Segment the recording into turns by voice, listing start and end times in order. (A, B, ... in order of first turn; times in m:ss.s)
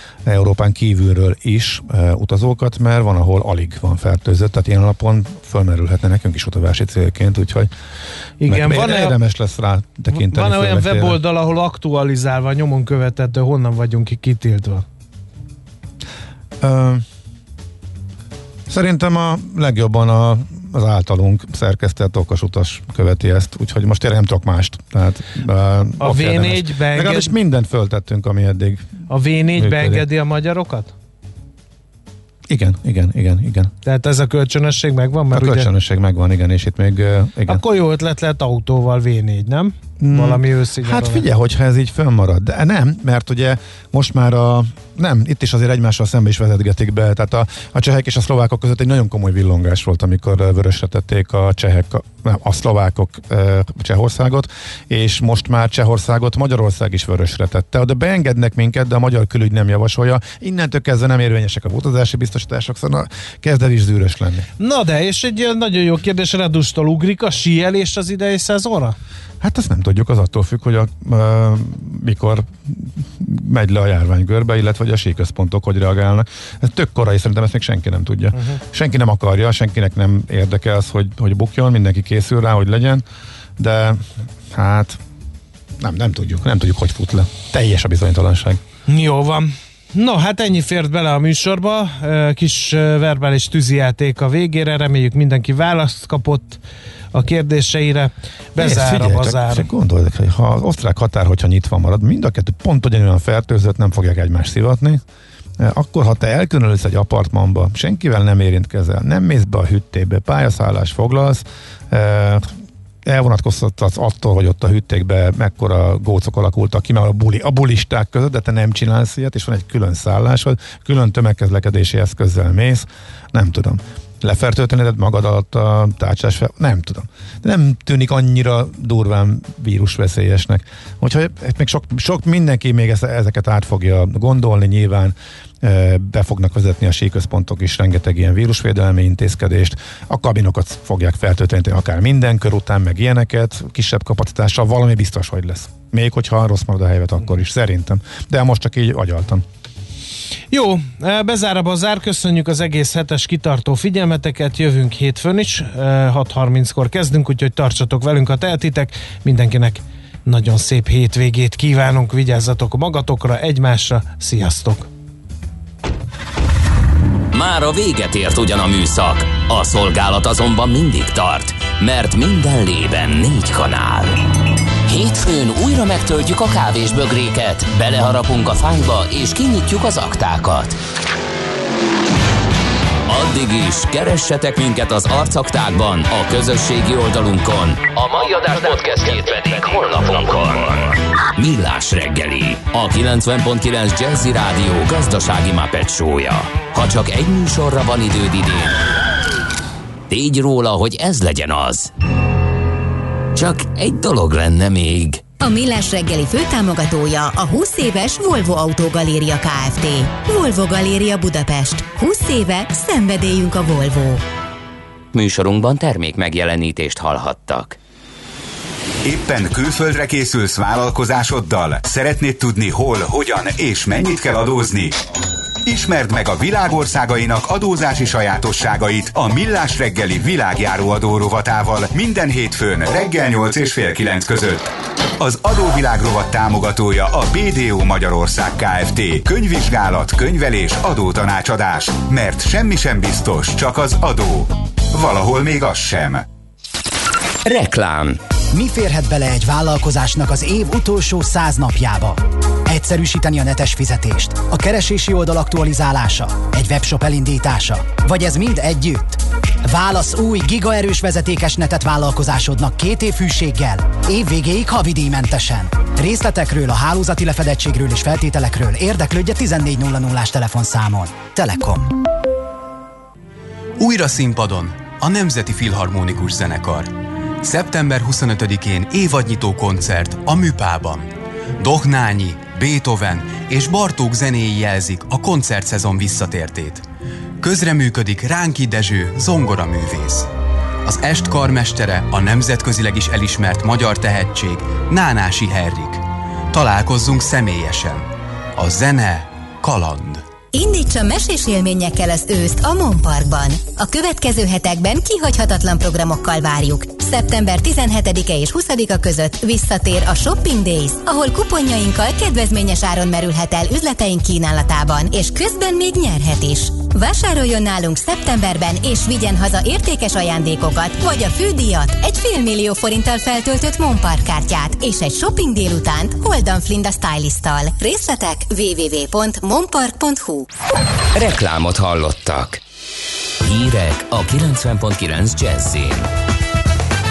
0:00.2-0:07.7 A
0:08.4-0:09.2 B
0:08.4-0:11.2 A
0:10.1-0:14.8 B
0:16.6-0:17.0 A
0:18.7-0:29.0 A
0:26.0-0:27.3 B
0:29.1-0:30.9 B
0:29.5-0:30.0 A
0:32.5-0:33.7 A
0:33.8-0:35.7 B
0:35.3-0:37.6 A
0:37.5-0:41.2 B
0:40.0-1:04.5 A
1:04.6-1:08.9 B
1:09.4-1:23.0 A
1:23.6-1:25.0 A
1:25.8-1:28.6 A
1:28.9-1:36.6 B
1:37.1-1:39.7 B
1:38.6-1:45.0 A
1:45.6-2:29.4 A
2:30.5-2:44.9 B
2:47.3-2:54.2 C
2:54.8-3:00.8 C
3:03.1-3:18.8 C
3:20.1-3:21.9 C
3:23.3-3:25.2 C
3:25.4-3:34.2 D
3:35.1-3:37.8 C
3:39.0-3:45.0 E
3:45.6-4:06.2 E
4:07.4-4:08.2 C
4:08.5-4:31.9 F
4:33.8-4:36.9 G
4:37.4-4:46.8 G
4:47.4-4:50.3 G
4:50.8-5:00.2 G
5:00.5-5:30.5 D
5:31.1-5:32.6 C
5:33.4-5:36.1 C